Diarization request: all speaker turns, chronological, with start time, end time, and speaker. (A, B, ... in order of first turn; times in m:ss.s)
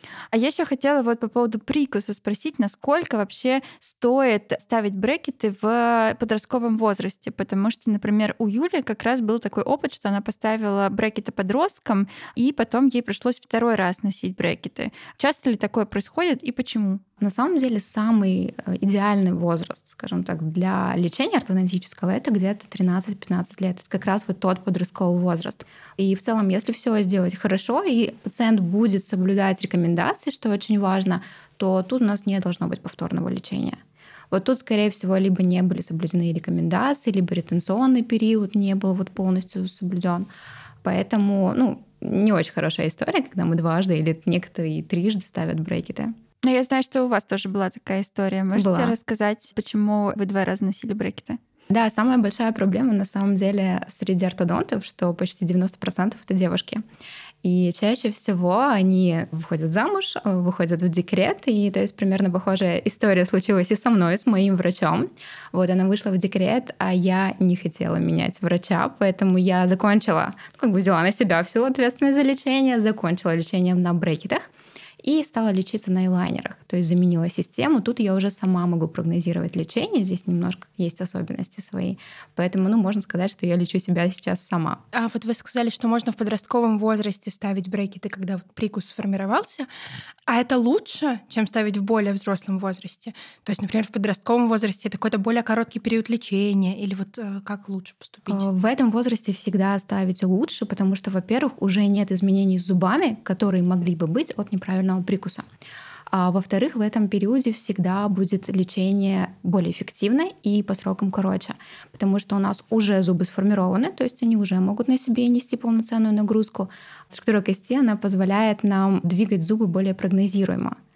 0:00.3-0:17.0 A
0:17.2-0:33.8 B
0:34.3-0:40.3 B
0:40.8-0:46.1 B
0:46.4-0:51.4 A
0:48.5-0:49.0 B
0:51.7-0:56.8 B
0:57.4-1:14.5 B
1:15.0-1:24.8 B
1:24.9-1:29.7 C
1:30.3-1:38.5 C
1:38.3-1:45.4 B
1:46.1-2:00.8 B